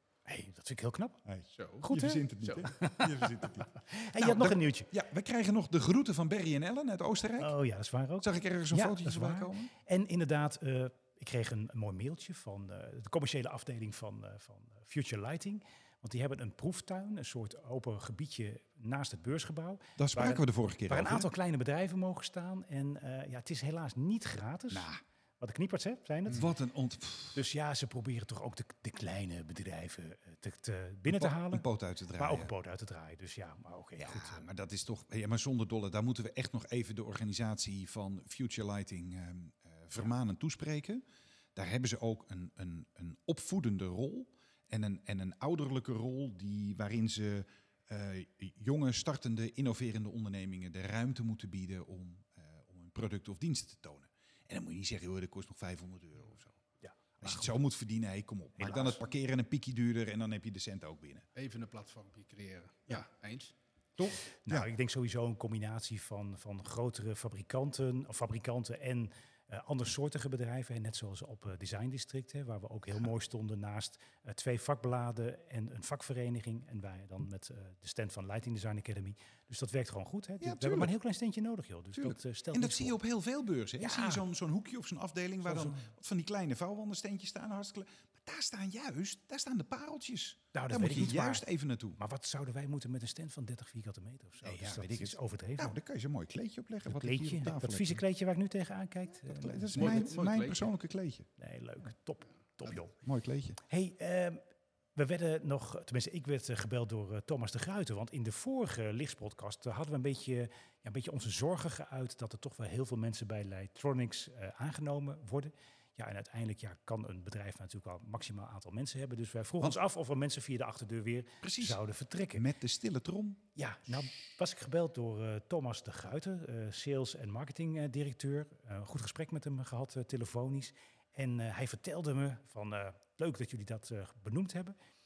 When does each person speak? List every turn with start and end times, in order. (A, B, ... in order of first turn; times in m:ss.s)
0:00.3-0:01.2 A
0:01.2-0:07.5 B
0:01.6-0:01.8 C
0:01.8-0:04.9 A
0:07.4-0:24.9 A
0:08.2-0:09.7 B
0:20.0-0:21.3 B
0:24.7-0:25.0 B
0:25.4-0:26.5 A
0:26.3-0:27.4 B
0:27.4-0:34.5 A
0:31.1-0:32.5 B
0:34.0-0:41.0 B
0:41.6-0:56.6 B
0:56.8-0:57.5 A
0:57.2-1:01.2 B
0:58.6-0:59.0 A
1:01.4-1:03.5 C
1:04.0-1:04.7 B
1:04.4-1:23.0 A
1:20.4-1:21.0 B
1:21.9-1:32.0 B
1:23.8-1:24.2 A
1:25.4-1:25.9 A
1:30.5-1:35.8 A
1:34.4-1:38.0 B
1:36.9-1:40.1 A
1:39.3-1:41.3 B
1:39.7-1:40.7 C
1:41.4-1:43.0 A
1:43.0-1:43.6 B
1:43.7-1:44.4 A
1:45.0-2:02.5 A
2:01.4-2:01.8 B
2:02.3-2:03.4 B
2:03.6-2:14.8 A